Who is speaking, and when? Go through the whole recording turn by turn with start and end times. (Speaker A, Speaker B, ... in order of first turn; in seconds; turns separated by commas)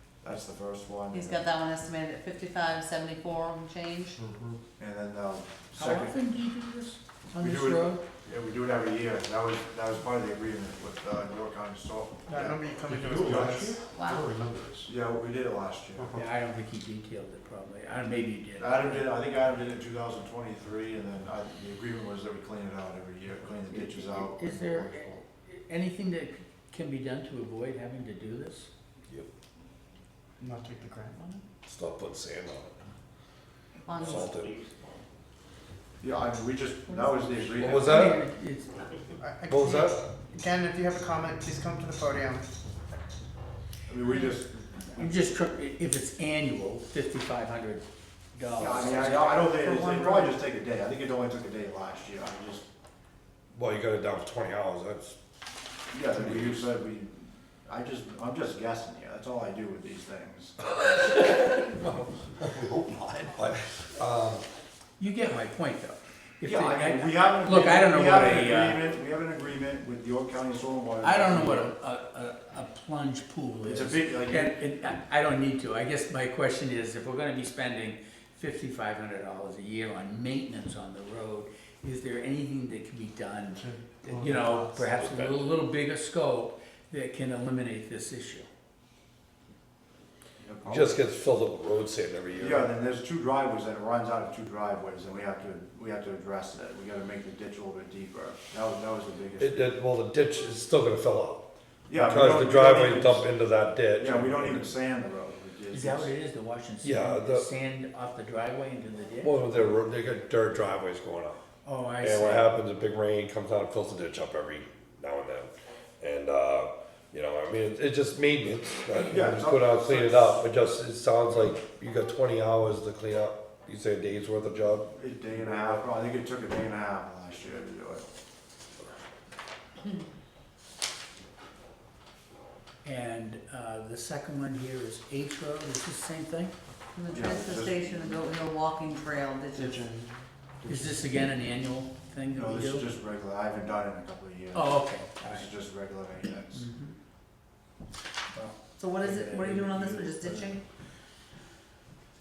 Speaker A: 0.2-1.4, Speaker B: 1.1-4.2, Speaker C: 4.1-4.6, Speaker A: 4.8-6.2, Speaker D: 5.7-8.0, Speaker A: 7.3-12.6, Speaker E: 12.3-13.8, Speaker C: 12.8-14.9, Speaker B: 13.9-14.3, Speaker A: 14.8-16.1, Speaker D: 16.1-19.1, Speaker A: 18.6-25.2, Speaker D: 23.7-28.7, Speaker E: 30.4-31.4, Speaker F: 31.6-32.8, Speaker B: 33.9-34.5, Speaker F: 33.9-34.6, Speaker A: 36.0-37.9, Speaker B: 36.9-37.5, Speaker D: 37.6-38.7, Speaker F: 37.6-38.2, Speaker E: 39.2-42.5, Speaker F: 39.5-40.0, Speaker A: 43.9-45.3, Speaker B: 44.0-44.4, Speaker D: 45.0-47.8, Speaker D: 48.3-49.4, Speaker A: 48.5-52.6, Speaker B: 49.0-50.4, Speaker F: 53.5-55.1, Speaker A: 55.9-60.5, Speaker F: 56.2-56.5, Speaker F: 60.7-64.4, Speaker D: 65.0-68.8, Speaker A: 66.4-71.7, Speaker D: 71.0-88.5, Speaker A: 73.6-74.5, Speaker E: 83.6-84.8, Speaker F: 85.0-85.5, Speaker A: 90.4-91.0, Speaker F: 90.6-92.7, Speaker A: 92.3-99.6, Speaker F: 99.4-104.7, Speaker A: 101.9-103.3, Speaker A: 104.0-106.1, Speaker D: 105.7-109.4, Speaker F: 106.8-107.5, Speaker F: 109.2-111.4, Speaker D: 111.6-112.5, Speaker F: 112.0-124.9, Speaker A: 118.9-120.4, Speaker A: 124.9-128.0, Speaker D: 132.8-136.5, Speaker B: 136.9-139.8, Speaker A: 137.1-138.2, Speaker E: 139.6-140.2, Speaker A: 140.6-140.9, Speaker D: 140.6-142.9, Speaker A: 142.3-146.7, Speaker D: 144.5-145.5, Speaker D: 146.5-146.9, Speaker A: 148.3-150.6, Speaker B: 148.8-150.6